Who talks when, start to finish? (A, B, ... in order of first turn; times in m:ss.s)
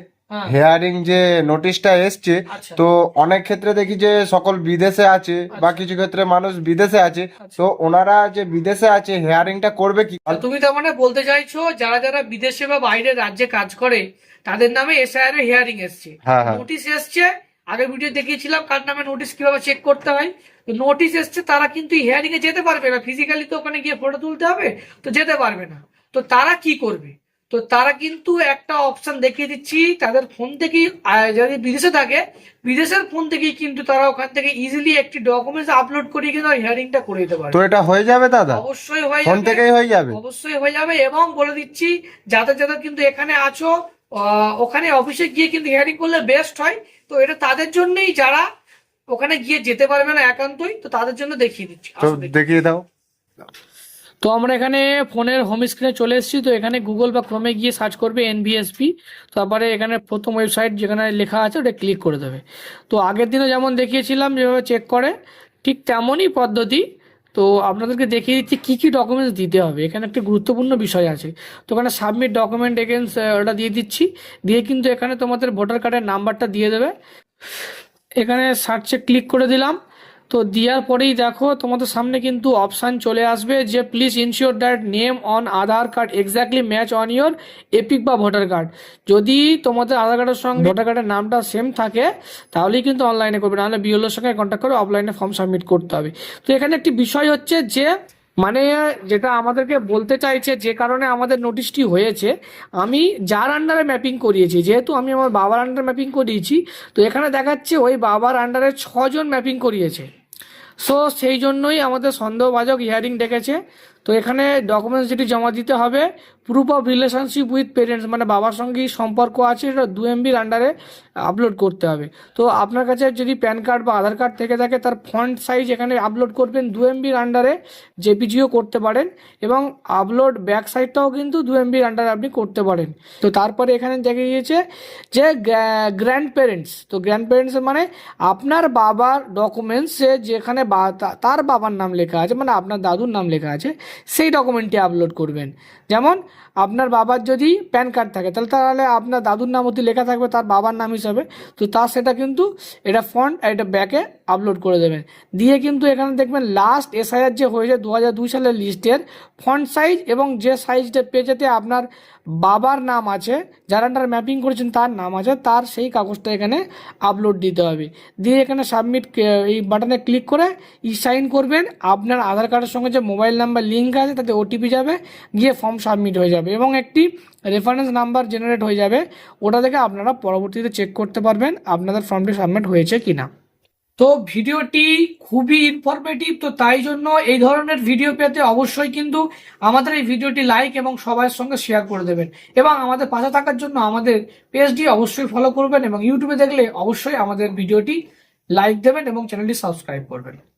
0:00.3-0:00.5 A
0:00.5-0:10.4 B
0:02.5-0:02.8 A
0:05.5-0:05.8 A
0:10.3-0:37.6 A
0:16.2-0:16.6 B
0:37.5-0:38.6 B
0:38.5-0:48.5 A
0:39.2-0:40.2 B
0:49.1-0:52.5 A
0:52.0-0:52.8 B
0:54.2-1:16.9 A
1:18.2-1:19.8 A
1:20.3-1:50.1 A
1:50.8-3:03.3 A
3:04.0-3:18.0 A
3:18.6-3:20.4 A